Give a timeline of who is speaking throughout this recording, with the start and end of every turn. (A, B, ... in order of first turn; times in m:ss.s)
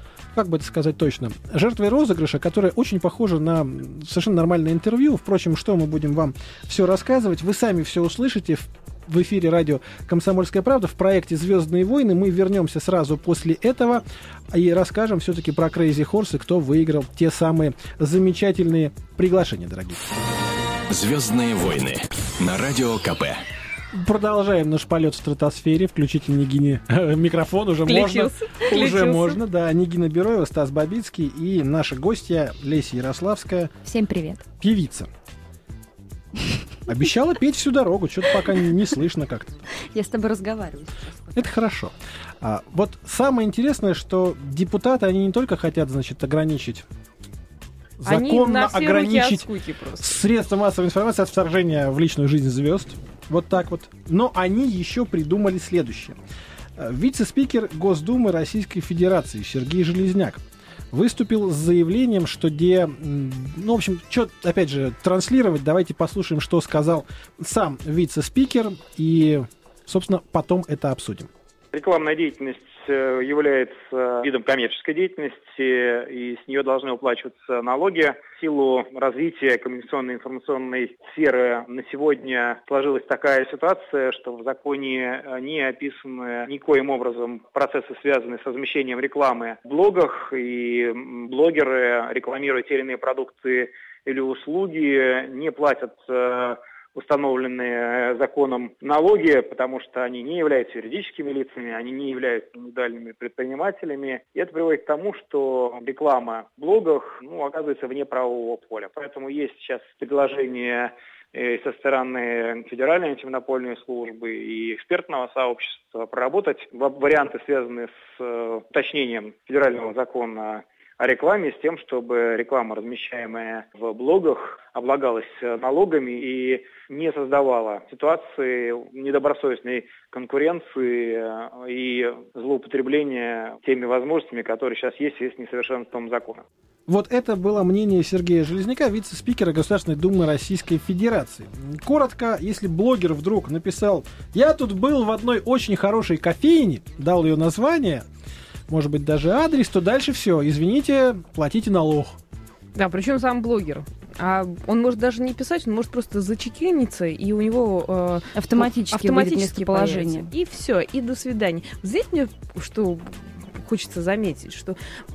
0:00.3-0:20.0 A
0:20.9-0:23.4 B
0:23.9-0:33.7 A
0:27.8-0:29.4 C
0:33.8-0:34.4 D
0:34.6-0:35.1 A
0:36.9-0:39.6 A
0:39.9-0:41.4 D
0:41.3-0:46.8 A
0:48.0-0:49.4 A
0:48.0-0:50.2 C
0:50.0-0:56.2 A
0:56.8-1:11.3 A
1:11.7-2:16.4 E
2:16.9-2:28.0 A
2:28.7-2:32.2 A
2:32.7-2:44.8 C
2:38.3-2:40.3 D